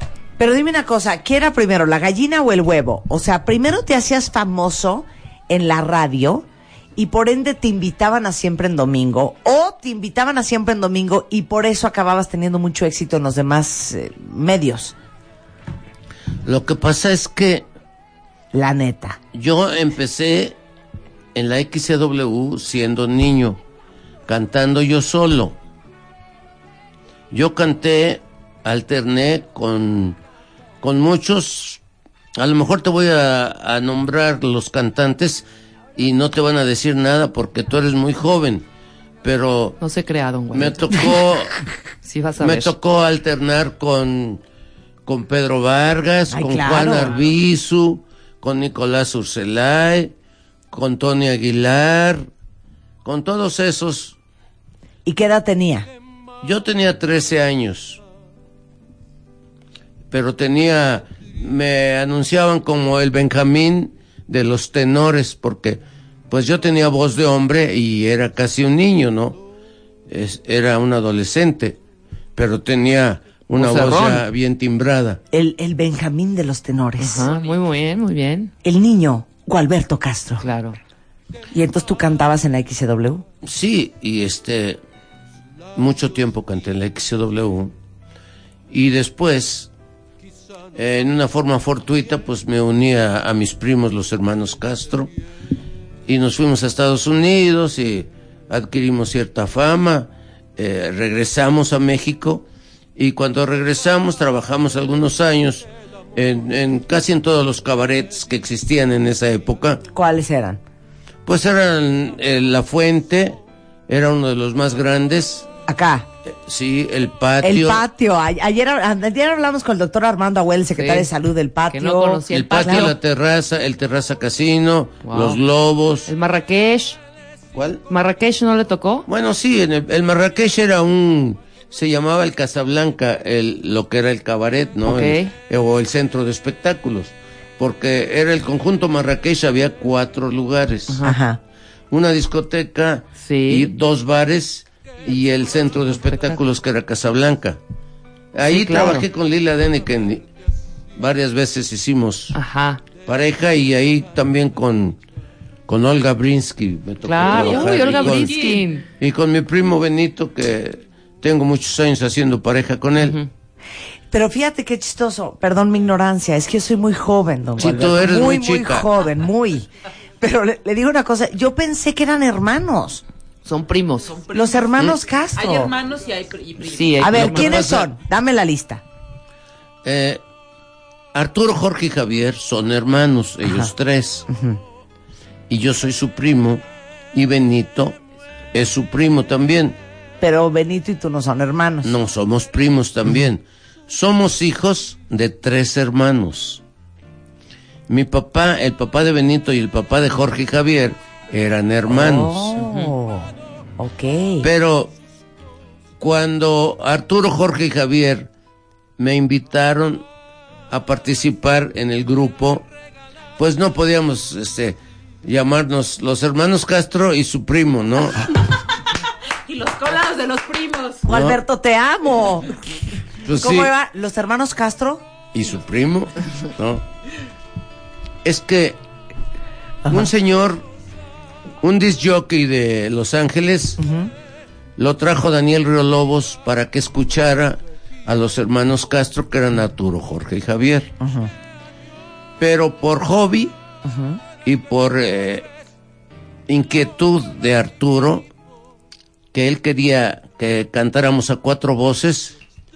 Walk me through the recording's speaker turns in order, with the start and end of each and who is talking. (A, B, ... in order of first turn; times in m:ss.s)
0:00.4-0:15.0 A
0:16.4-0:17.7 B
0:18.5-0:19.2 A
0:19.3-0:20.6 B
0:21.4-0:23.6 B
0:24.3-0:25.6 B
0:27.3-0:30.2 B
0:30.8-0:31.8 B
0:32.4-0:38.6 B
0:39.2-0:39.8 B
0:39.8-0:41.0 C
0:40.5-0:41.6 B
0:42.0-0:42.7 C
0:42.4-0:44.4 B
0:45.1-0:50.1 B
0:46.3-0:47.2 A
0:50.7-0:52.3 B
0:53.0-0:54.2 B
0:55.0-0:55.9 A
0:56.4-0:58.0 B
1:00.1-1:09.4 B
1:10.1-1:11.8 B
1:12.4-1:15.2 B
1:13.6-1:14.2 C
1:15.3-1:17.3 A
1:17.0-1:18.5 C
1:17.2-1:17.6 D
1:18.6-1:20.4 A
1:20.4-1:20.8 C
1:21.5-1:23.2 A
1:23.4-1:24.8 B
1:25.8-1:27.7 B
1:28.7-1:29.7 B
1:30.8-1:35.1 B
1:36.1-1:49.8 B
1:49.9-1:50.6 A
1:51.3-1:55.5 B
1:55.7-1:56.1 A
1:56.3-1:57.8 B
1:57.4-2:02.2 A
2:00.8-2:01.1 C
2:01.7-2:03.0 C
2:02.3-2:06.1 B
2:05.0-2:05.4 C
2:06.1-2:07.0 C
2:07.5-2:07.8 B
2:07.9-2:09.1 C
2:09.1-2:21.0 B
2:14.9-2:15.3 C
2:20.9-2:21.2 C
2:21.0-2:21.4 A
2:21.9-2:27.6 B
2:23.2-2:23.7 C
2:26.1-2:26.4 C
2:28.3-2:30.3 B
2:28.5-2:29.0 C
2:31.0-2:32.4 B
2:32.3-2:32.8 C
2:33.1-2:35.0 B
2:35.7-2:38.4 B
2:37.1-2:38.8 C
2:37.3-2:38.8 D
2:39.0-2:43.2 B
2:43.0-2:43.3 C
2:44.1-2:49.7 A
2:47.6-2:48.9 B
2:50.2-2:53.0 A
2:53.4-2:54.1 C
2:54.0-2:54.7 D
2:54.3-2:55.7 A
2:55.3-2:57.2 D
2:56.6-2:57.6 C
2:57.0-2:58.8 A
2:57.1-2:57.9 B
2:59.8-3:00.2 B
3:01.1-3:04.3 B
3:04.3-3:04.6 A
3:05.5-3:08.0 B
3:08.5-3:09.8 B
3:10.2-3:11.9 A
3:11.8-3:16.6 B
3:17.9-3:22.5 B
3:21.9-3:24.5 A
3:24.4-3:24.9 B
3:26.0-3:28.3 B
3:29.0-3:30.0 B
3:30.7-3:32.7 B
3:33.4-3:38.4 B
3:39.4-3:41.1 D
3:41.1-3:42.5 A
3:41.1-3:41.4 B
3:43.2-3:43.7 B
3:43.4-3:45.0 A
3:45.3-3:46.8 B
3:48.2-3:48.8 B
3:49.8-3:50.1 A
3:49.9-3:50.6 B
3:51.6-3:53.8 B
3:53.8-3:54.1 A
3:54.8-4:00.9 B
4:01.0-4:01.3 A
4:02.4-4:03.6 B
4:03.8-4:04.2 A
4:04.4-4:05.5 B
4:06.5-4:08.3 B
4:09.3-4:12.4 B